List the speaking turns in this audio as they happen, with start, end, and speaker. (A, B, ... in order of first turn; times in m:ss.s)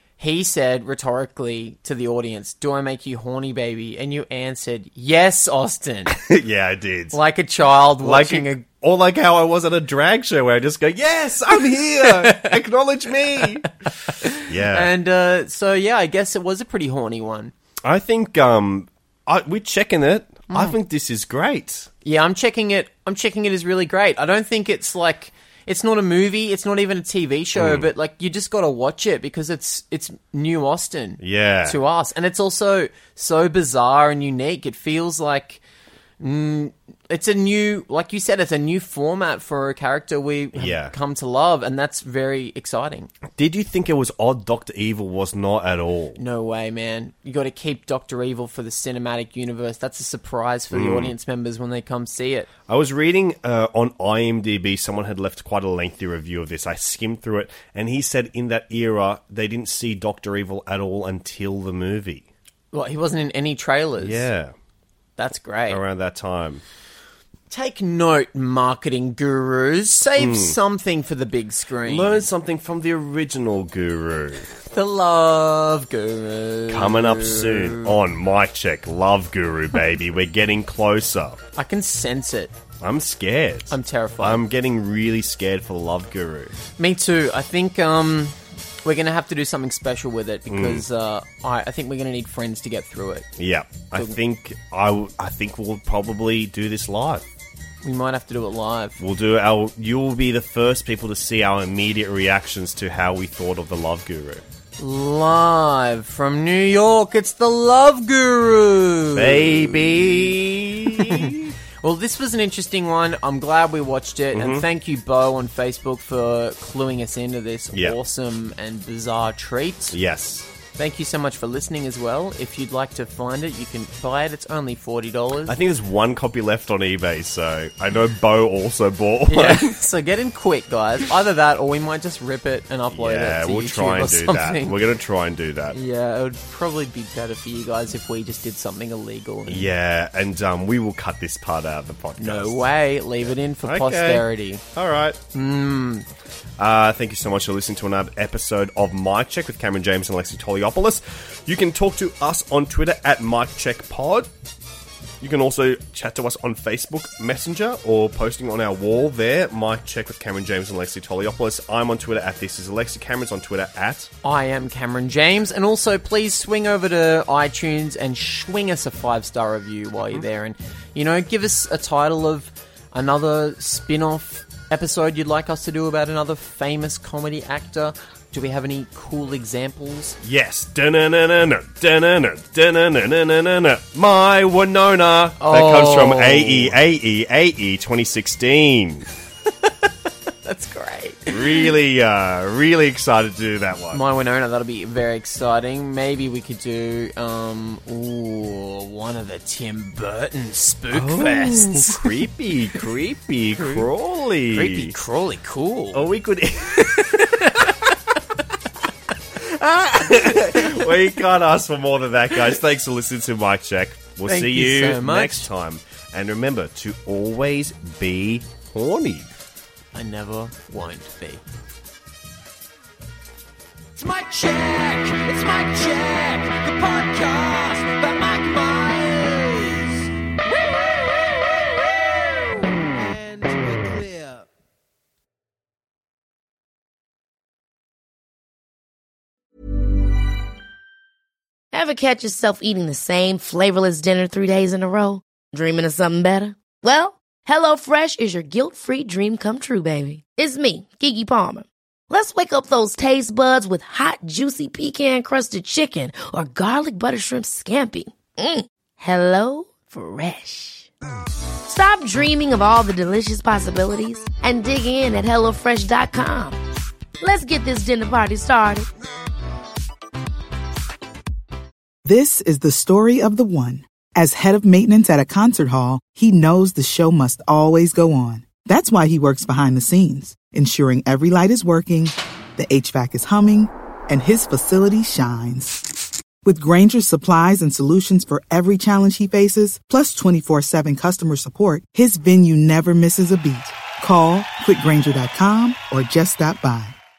0:00.2-0:06.2 A
0:06.1-0:07.2 B
0:07.1-0:08.6 A
0:08.0-0:13.7 B
0:12.0-0:12.6 A
0:14.1-0:17.5 A
0:14.4-0:14.9 B
0:17.8-0:21.9 B
0:22.0-0:35.6 A
0:27.6-0:27.9 B
0:31.2-0:31.8 B
0:36.2-0:43.1 A
0:40.5-0:40.9 B
0:43.3-0:46.2 B
0:46.2-0:52.5 A
0:50.7-0:51.1 B
0:52.7-1:02.3 B
1:02.7-1:04.3 A
1:04.0-1:04.5 B
1:05.2-1:05.8 A
1:05.7-1:06.6 B
1:07.5-1:12.2 A
1:10.2-1:10.6 B
1:11.8-1:14.5 B
1:14.5-1:17.9 A
1:16.7-1:21.4 B
1:21.6-1:22.5 A
1:22.8-1:26.6 B
1:23.7-1:24.4 A
1:26.8-1:33.2 A
1:30.5-1:30.8 B
1:33.4-1:37.2 B
1:37.8-1:39.0 A
1:39.0-1:44.4 B
1:44.8-1:50.3 A
1:49.1-1:51.5 B
1:50.9-2:00.0 A
1:54.3-1:54.6 B
1:59.9-2:00.5 B
2:00.8-2:05.6 A
2:05.5-2:09.7 B
2:09.3-2:14.8 A
2:12.9-2:15.8 B
2:15.7-2:19.7 A
2:19.5-2:22.6 B
2:22.2-2:24.6 A
2:23.2-2:25.2 B
2:25.3-2:26.1 A
2:26.6-2:34.3 B
2:35.2-2:44.1 B
2:44.2-3:00.2 A
3:00.2-3:09.0 B
3:05.4-3:06.8 A
3:10.4-3:11.7 A
3:11.3-3:14.0 B
3:13.9-3:22.1 A
3:20.9-3:24.9 B
3:23.6-3:23.8 A
3:24.5-3:26.1 A
3:25.9-3:27.7 B
3:27.0-3:27.6 A
3:29.3-3:39.3 B
3:30.3-3:30.9 A
3:34.3-3:35.5 A
3:39.9-3:41.4 A
3:43.9-3:50.1 C
3:52.6-3:54.4 C
4:01.7-4:20.9 D
4:21.6-4:26.6 D
4:27.2-4:28.9 D
4:32.0-4:45.8 E
4:46.4-4:57.0 E